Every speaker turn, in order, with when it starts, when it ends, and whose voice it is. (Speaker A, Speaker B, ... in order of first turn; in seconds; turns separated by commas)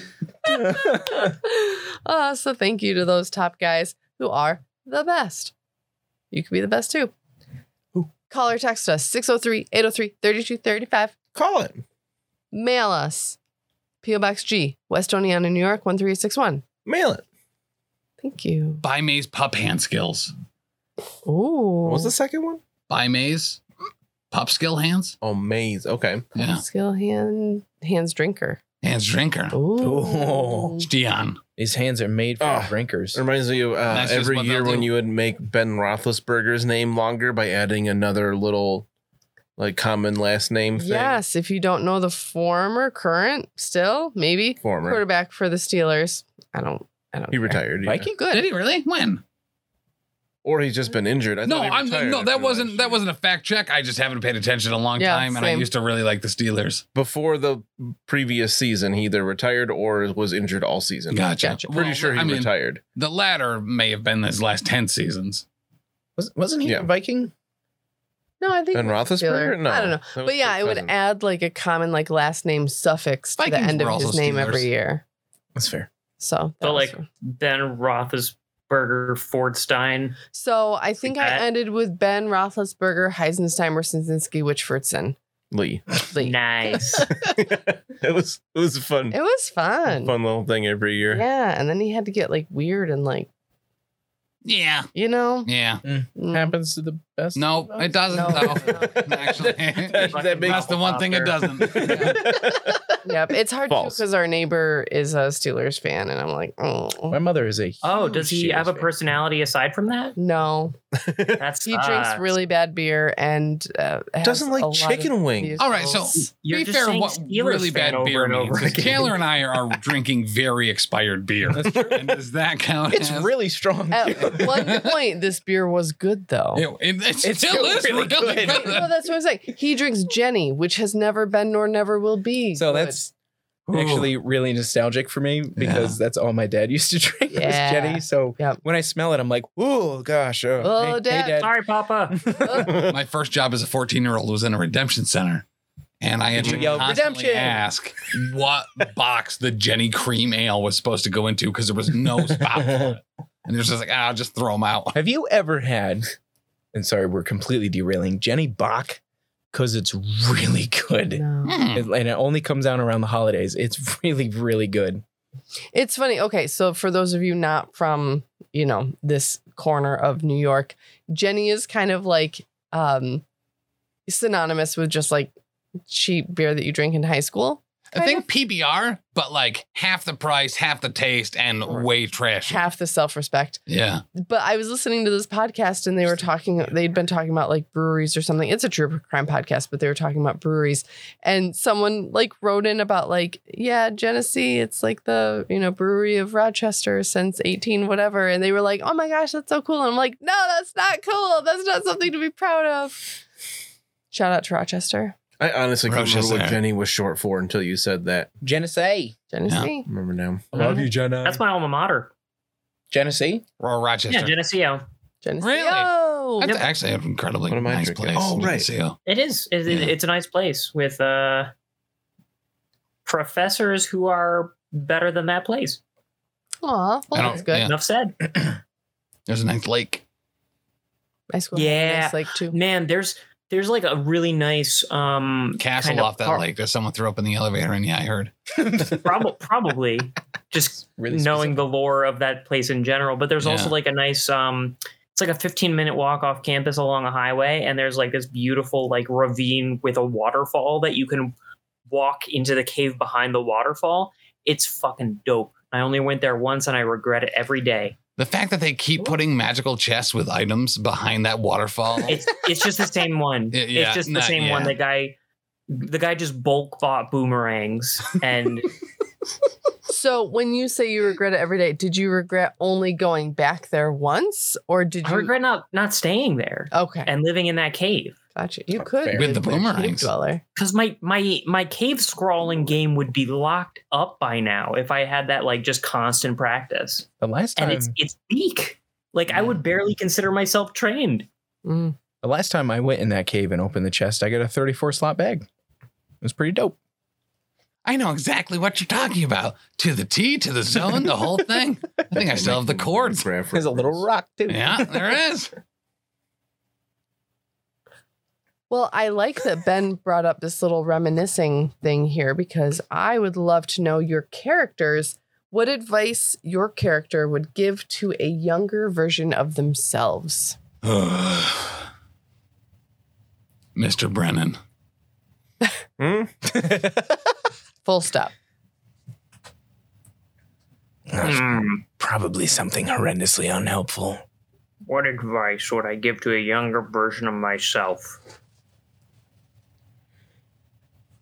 Speaker A: 0.5-5.5, Speaker B: 0.8-1.1, Speaker A: 6.3-7.1, Speaker A: 8.3-11.1, Speaker C: 11.3-11.8, Speaker A: 12.5-13.4, Speaker A: 14.0-16.6, Speaker C: 16.9-17.2, Speaker A: 18.2-18.8, Speaker D: 18.8-20.3, Speaker A: 21.2-22.1, Speaker C: 21.8-22.6, Speaker D: 22.9-23.6, Speaker D: 24.3-25.1, Speaker C: 25.2-26.3, Speaker D: 26.3-26.6, Speaker A: 26.4-28.6, Speaker D: 28.8-29.6, Speaker A: 29.5-30.8, Speaker B: 29.8-30.8, Speaker D: 30.8-31.4, Speaker B: 31.6-33.2, Speaker C: 32.4-38.9, Speaker D: 33.9-34.9, Speaker C: 39.6-41.2, Speaker A: 40.8-48.5, Speaker C: 44.6-45.0, Speaker C: 47.3-48.1, Speaker B: 47.8-48.2, Speaker D: 48.3-49.2, Speaker C: 50.4-53.0, Speaker D: 51.4-56.8, Speaker A: 55.0-55.7, Speaker C: 56.9-62.8, Speaker D: 61.1-65.4, Speaker A: 61.4-61.7, Speaker B: 66.2-67.3, Speaker A: 68.4-75.0, Speaker C: 68.7-70.9, Speaker D: 73.4-74.7, Speaker B: 75.5-75.9, Speaker A: 76.2-77.0, Speaker E: 76.6-80.2, Speaker A: 80.3-85.2, Speaker E: 81.0-81.4, Speaker C: 85.5-85.9, Speaker A: 86.1-87.0, Speaker E: 86.2-87.1, Speaker C: 87.2-89.2, Speaker A: 89.1-90.1, Speaker C: 89.9-91.2, Speaker A: 91.1-93.3, Speaker D: 94.4-94.9, Speaker A: 94.9-95.5, Speaker D: 95.5-95.8, Speaker B: 95.8-98.9, Speaker A: 96.2-96.5, Speaker D: 97.3-102.2, Speaker A: 98.1-99.0, Speaker C: 99.4-100.8, Speaker E: 100.0-101.3, Speaker C: 101.5-102.9, Speaker B: 101.7-102.5, Speaker A: 103.0-107.2, Speaker C: 103.7-104.0, Speaker B: 107.1-108.9, Speaker E: 107.8-110.2, Speaker A: 110.2-110.8, Speaker C: 111.0-111.4, Speaker E: 111.4-112.3, Speaker A: 111.6-116.3, Speaker C: 114.2-115.6, Speaker D: 115.6-123.3, Speaker E: 116.4-119.1, Speaker B: 121.5-122.1, Speaker B: 122.9-124.7, Speaker A: 123.9-126.6, Speaker D: 124.5-124.9, Speaker D: 126.5-128.9, Speaker B: 127.2-128.9, Speaker A: 128.6-133.0, Speaker B: 132.6-133.1, Speaker B: 133.7-142.7, Speaker D: 133.7-134.1, Speaker D: 135.6-136.0, Speaker A: 137.3-138.6, Speaker A: 140.6-141.4, Speaker E: 141.3-142.3, Speaker A: 142.3-142.9, Speaker D: 142.5-145.4, Speaker C: 142.6-142.9, Speaker D: 146.0-155.0, Speaker B: 146.4-147.6, Speaker C: 146.4-146.8, Speaker B: 154.9-156.1, Speaker B: 156.7-159.0, Speaker B: 159.5-165.0, Speaker A: 161.1-161.6, Speaker D: 161.4-161.9, Speaker A: 165.7-173.2, Speaker A: 174.1-175.3, Speaker A: 175.9-178.2, Speaker D: 177.9-182.7, Speaker A: 182.4-183.6, Speaker D: 183.7-184.0, Speaker A: 184.1-203.2, Speaker A: 204.1-205.2, Speaker C: 205.4-208.3, Speaker D: 205.8-206.6, Speaker B: 208.4-209.2, Speaker A: 209.3-209.9, Speaker C: 209.9-210.8, Speaker B: 210.5-211.4, Speaker E: 211.2-212.1, Speaker B: 212.9-213.4, Speaker D: 213.6-214.3, Speaker E: 214.1-214.8, Speaker A: 215.2-216.6, Speaker D: 215.4-219.0, Speaker C: 217.5-218.7, Speaker B: 218.2-218.5, Speaker E: 219.1-221.5, Speaker E: 223.0-225.8, Speaker A: 226.6-227.7, Speaker D: 227.1-227.7, Speaker E: 227.5-228.2, Speaker D: 229.3-230.0, Speaker A: 231.3-232.6, Speaker E: 231.5-236.4, Speaker D: 235.6-238.3, Speaker E: 238.8-251.3, Speaker B: 240.9-241.6, Speaker D: 243.4-243.7, Speaker E: 251.9-257.9, Speaker D: 258.2-262.2, Speaker E: 262.0-265.2, Speaker D: 263.5-264.8, Speaker E: 265.7-268.7, Speaker A: 269.9-275.3, Speaker E: 275.0-278.2, Speaker A: 276.7-277.1, Speaker A: 278.4-280.4, Speaker C: 279.0-279.3, Speaker D: 279.1-280.1, Speaker E: 280.6-291.3, Speaker B: 287.2-287.9, Speaker A: 291.6-291.9, Speaker B: 292.2-295.5, Speaker B: 296.2-296.8, Speaker D: 297.8-303.3, Speaker C: 302.1-304.0, Speaker B: 303.5-305.2, Speaker D: 304.5-305.5, Speaker A: 308.7-320.6, Speaker D: 320.8-321.8, Speaker D: 323.7-324.6, Speaker C: 326.0-326.3, Speaker B: 326.5-327.1, Speaker A: 327.8-328.3, Speaker B: 331.1-334.2, Speaker E: 331.2-331.8, Speaker E: 334.8-338.1